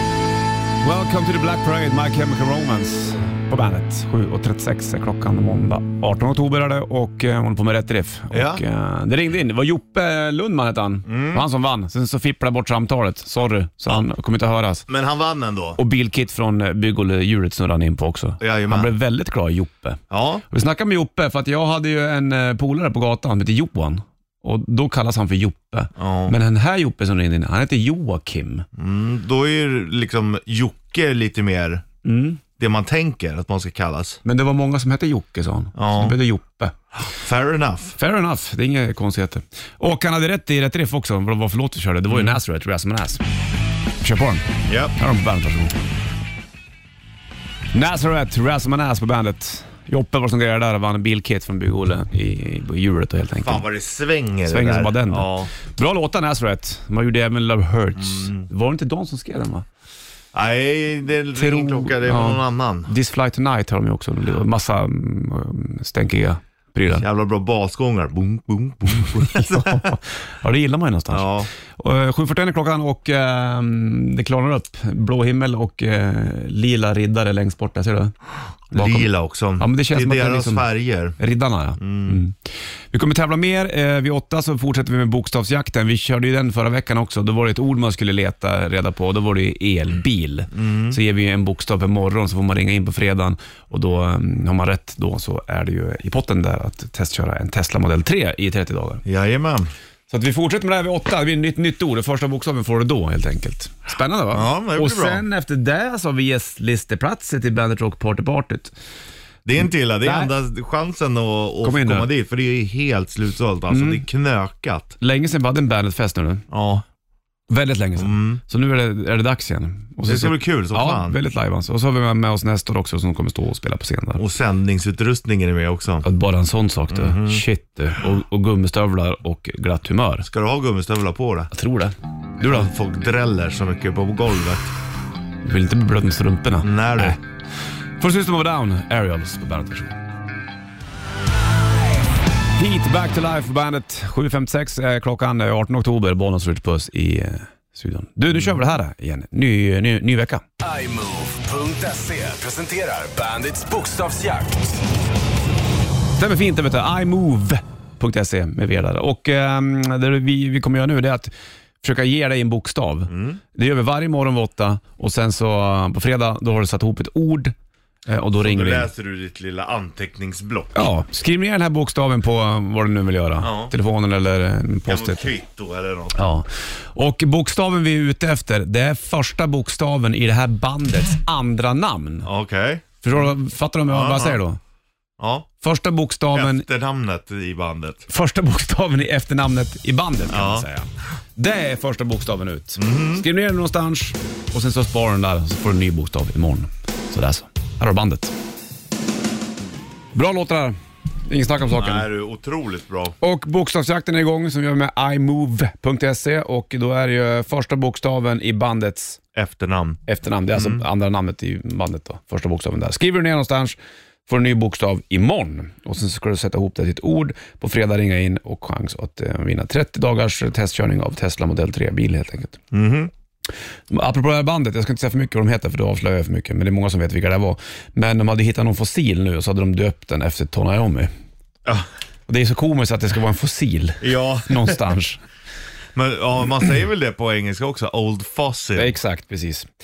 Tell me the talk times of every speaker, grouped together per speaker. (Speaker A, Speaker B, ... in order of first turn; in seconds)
Speaker A: 0.8-14.9, 15.8-28.6, 32.0-32.4, 34.2-36.8, 38.0-43.2, 44.0-45.7, 47.7-53.6, 54.5-59.6, 61.4-67.1, 69.0-78.1, 78.7-82.4, 82.9-99.0, 100.1-108.7, 110.0-110.3, 111.6-112.1, 113.7-114.0, 115.0-116.4, 117.5-124.2, 126.0-130.3, 131.5-132.7, 135.4-137.2, 138.0-140.0, 142.6-150.4, 156.2-167.5, 168.1-168.9, 170.7-175.3, 176.1-182.3, 183.0-184.6, 185.6-186.7, 188.1-198.3, 200.1-202.1, 203.2-209.2, 210.1-213.8, 214.3-222.6, 223.9-231.1, 232.3-235.2, 238.8-239.7
Speaker B: 8.3-8.6, 11.1-11.4, 14.9-15.8, 18.4-18.9, 20.1-20.4, 26.0-26.4, 28.8-31.9, 32.6-34.2, 35.8-36.2, 37.1-38.0, 42.1-42.4, 44.7-44.9, 53.4-55.5, 58.0-58.5, 60.3-62.9, 66.9-70.0, 71.1-71.5, 78.7-81.2, 81.8-82.2, 90.5-91.0, 99.1-99.7, 104.3-105.2, 109.4-115.0, 116.5-116.8, 118.0-118.4, 120.1-121.2, 124.2-126.1, 126.9-127.4, 130.2-131.5, 132.4-134.7, 136.6-137.2, 163.1-163.4, 168.4-170.9, 173.4-173.7, 174.9-176.2, 182.2-182.8, 183.9-184.4, 185.2-185.5, 186.3-188.1, 190.3-190.7, 192.8-193.2, 201.7-203.2, 209.3-210.0, 210.5-210.8, 222.7-223.1, 234.0-234.8, 235.9-238.9
Speaker C: 150.6-154.8